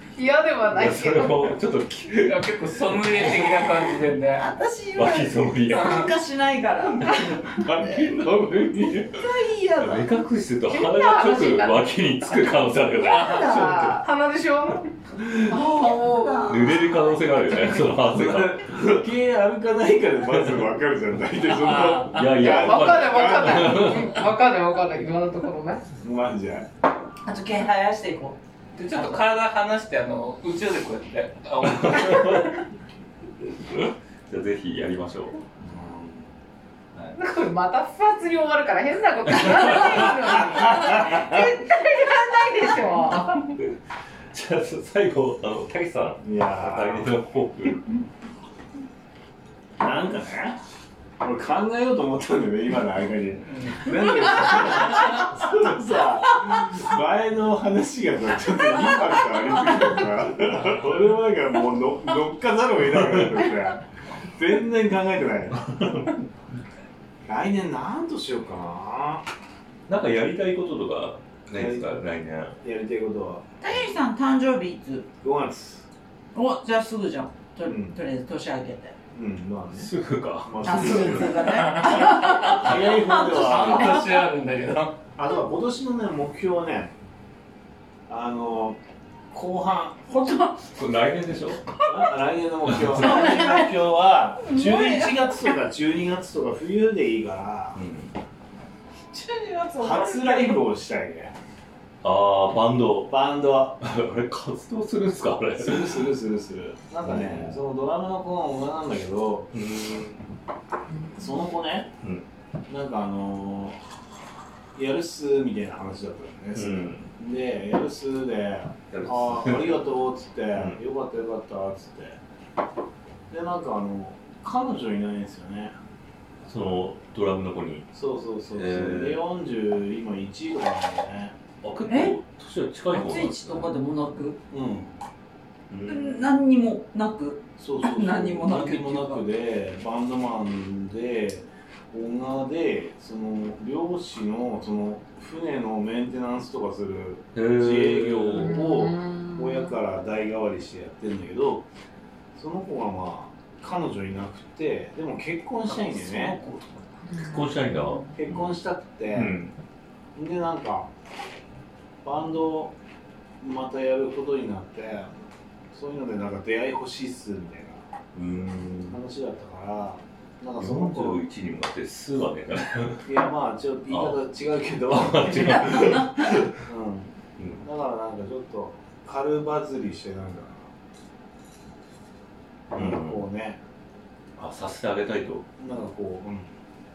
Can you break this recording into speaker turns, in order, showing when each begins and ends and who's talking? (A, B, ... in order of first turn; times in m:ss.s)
0:00.1-0:01.6 A
0:00.7-0:03.9 B
0:02.2-0:04.5 C
0:04.3-0:08.1 D
0:05.0-0:06.1 B
0:07.0-0:09.1 B
0:07.5-0:09.1 E
0:09.1-0:10.1 D
0:09.8-0:14.0 B
0:10.7-0:11.9 A
0:13.0-0:14.0 D
0:13.1-0:13.5 C
0:13.2-0:14.9 A
0:15.4-0:17.2 D
0:15.5-0:16.7 A
0:16.4-0:18.7 B
0:18.0-0:23.9 E
0:21.6-0:22.2 C
0:22.0-0:24.2 B
0:22.4-0:25.8 A
0:26.0-0:26.7 E
0:27.2-0:28.4 D
0:28.7-0:32.6 C
0:31.6-0:32.6 B
0:33.6-0:35.4 B
0:35.6-0:36.3 E
0:37.1-0:43.4 A
0:39.4-0:40.2 B
0:40.5-0:41.3 E
0:40.8-0:42.8 D
0:43.5-0:43.7 B
0:44.3-0:47.9 B
0:46.2-0:47.1 E
0:49.8-0:50.6 E
0:51.2-1:03.8 E
0:53.5-0:53.8 C
1:04.3-1:06.1 E
1:07.3-1:09.2 E
1:09.9-1:12.5 B
1:11.5-1:11.9 E
1:12.6-1:13.4 E
1:13.6-1:15.1 D
1:15.2-1:15.8 E
1:16.3-1:19.0 D
1:17.6-1:18.0 E
1:19.1-1:19.9 E
1:19.7-1:21.5 B
1:20.4-1:21.5 E
1:20.6-1:24.0 D
1:21.5-1:22.6 C
1:22.0-1:24.0 E
1:23.2-1:25.0 C
1:25.2-1:26.9 E
1:28.1-1:28.8 E
1:29.3-1:30.4 E
1:30.7-1:31.6 B
1:31.9-1:37.8 E
1:32.7-1:33.2 B
1:33.0-1:33.7 D
1:34.4-1:35.5 D
1:37.8-1:38.1 B
1:39.1-1:40.6 D
1:39.8-1:41.3 E
1:42.0-1:43.1 B
1:43.1-1:43.8 E
1:43.8-1:46.0 B
1:45.6-1:49.5 E
1:47.0-1:47.6 B
1:49.5-1:50.2 B
1:51.1-1:51.9 E
1:52.7-1:53.8 E
1:54.7-2:02.2 E
1:56.5-1:57.1 B
1:58.9-1:59.8 B
2:03.3-2:05.8 E
2:06.4-2:07.9 B
2:07.9-2:11.3 E
2:08.5-2:09.2 B
2:11.6-2:13.7 B
2:11.9-2:12.1 D
2:12.9-2:14.4 D
2:14.5-2:14.9 E
2:15.7-2:16.1 B
2:15.8-2:19.2 D
2:17.6-2:31.6 E
2:27.3-2:28.7 B
2:28.4-2:29.7 A
2:32.3-2:36.4 E
2:36.0-2:37.3 D
2:37.1-2:38.0 A
2:37.1-2:38.0 B
2:38.1-2:39.3 E
2:39.1-2:39.5 B
2:40.1-2:40.9 E
2:42.0-2:42.7 E
2:43.4-2:45.2 E
2:45.7-2:47.8 E
2:48.1-2:49.0 B
2:48.9-2:51.2 E
2:50.6-2:53.0 B
2:53.0-3:00.7 E
2:53.9-2:54.2 B
2:54.9-2:56.6 B
2:55.7-2:56.0 D
2:57.4-2:57.6 B
3:02.7-3:03.6 E
3:02.7-3:03.2 B
3:04.4-3:05.4 B
3:05.6-3:06.5 E